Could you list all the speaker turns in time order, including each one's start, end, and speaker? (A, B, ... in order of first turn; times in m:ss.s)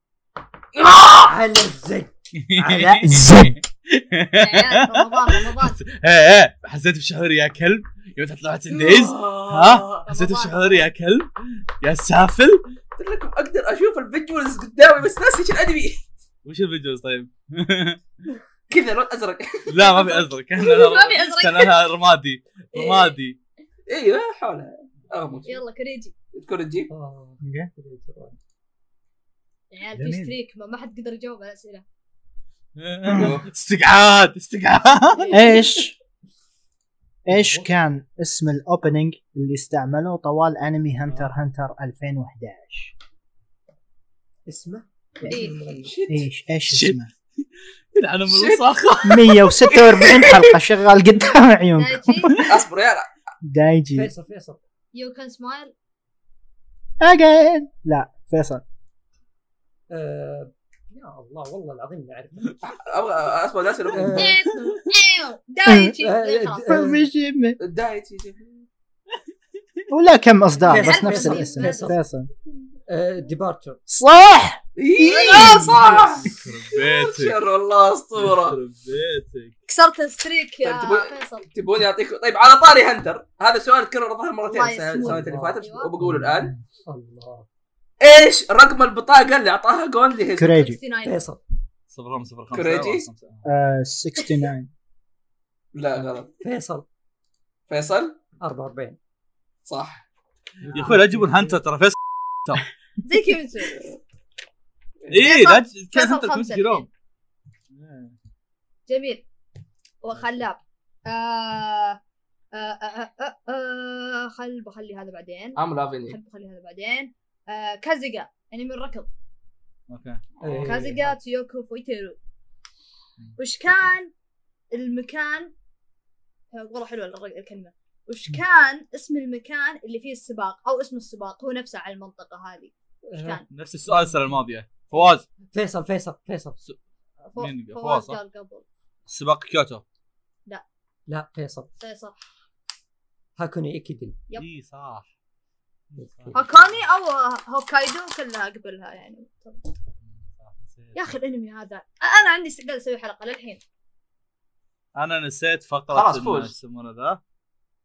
0:00.8-0:01.3 A
0:01.2-0:02.2 B
0:02.4-0:12.6 C
0:02.6-0:03.5 D
0:04.4-0:05.8 E
0:08.7-0:10.1 A
0:10.0-0:10.9 E
0:13.0-0:16.0 A
0:16.4-0:18.0 C
0:18.7-0:19.8 A
0:19.7-0:23.4 C
0:19.8-0:21.8 E
0:22.7-0:23.1 E
0:23.9-0:25.6 A
0:25.4-0:26.1 E
0:26.3-0:26.9 A
0:26.9-0:28.4 B
0:27.4-0:27.7 D
0:29.7-0:31.8 E
0:29.9-0:30.3 D
0:32.8-0:35.4 C
0:33.1-0:33.4 A
0:35.1-0:35.7 E
0:35.3-0:35.9 D
0:37.2-0:42.9 D
0:37.3-0:37.7 B
0:44.4-0:45.9 B
0:45.3-0:45.6 E
0:45.7-0:46.3 A
0:46.0-0:47.1 D
0:46.7-0:49.3 C
0:48.3-0:50.6 A
0:49.0-0:52.6 D
0:51.8-0:52.5 E
0:52.4-0:53.1 A
0:53.4-0:54.1 D
0:53.9-0:54.6 B
0:54.9-0:55.7 E
0:57.0-0:58.6 D
0:59.9-1:02.6 B
1:02.6-1:04.1 A
1:03.9-1:04.4 B
1:04.1-1:06.7 E
1:04.3-1:04.8 C
1:05.6-1:06.0 D
1:06.0-1:07.1 B
1:06.7-1:07.6 D
1:07.6-1:08.6 A
1:09.9-1:12.3 D
1:10.6-1:11.9 E
1:10.6-1:12.0 B
1:12.9-1:13.8 B
1:13.9-1:14.6 D
1:14.8-1:18.6 A
1:15.0-1:15.8 E
1:15.3-1:17.4 C
1:15.5-1:16.2 B
1:18.1-1:19.5 C
1:19.7-1:21.5 E
1:20.6-1:26.5 A
1:24.4-1:25.9 E
1:25.0-1:25.6 B
1:26.0-1:26.6 D
1:26.8-1:27.4 B
1:28.0-1:30.6 A
1:30.4-1:30.8 D
1:30.5-1:31.2 E
1:31.0-1:31.4 B
1:31.9-1:33.4 C
1:32.5-1:33.1 A
1:33.4-1:34.7 D
1:35.7-1:36.3 A
1:35.9-1:36.8 B
1:37.7-1:38.2 A
1:38.4-1:39.0 B
1:39.6-1:40.0 A
1:40.6-1:42.7 C
1:40.6-1:41.6 B
1:43.0-1:44.0 E
1:45.1-1:46.9 C
1:45.2-1:46.9 E
1:47.7-1:48.1 C
1:48.9-1:49.2 E
1:50.0-1:52.0 E
1:52.5-1:59.1 E
1:55.6-1:56.2 A
1:59.9-2:00.2 C
2:00.4-2:01.2 B
2:00.4-2:00.9 A
2:00.6-2:02.2 E
2:03.4-2:04.1 E
2:04.7-2:05.5 E
2:06.5-2:13.4 E
2:13.0-2:14.2 B
2:13.5-2:15.2 C
2:15.5-2:16.6 B
2:17.2-2:18.6 E
2:17.4-2:18.2 C
2:19.1-2:19.8 C
2:21.1-2:21.7 B
2:21.8-2:22.2 E
2:23.4-2:24.2 B
2:24.3-2:25.1 C
2:25.9-2:26.8 C
2:26.0-2:26.4 B
2:26.3-2:29.6 E
2:30.0-2:31.2 C
2:30.9-2:33.6 E
2:34.9-2:37.2 C
2:35.9-2:36.5 A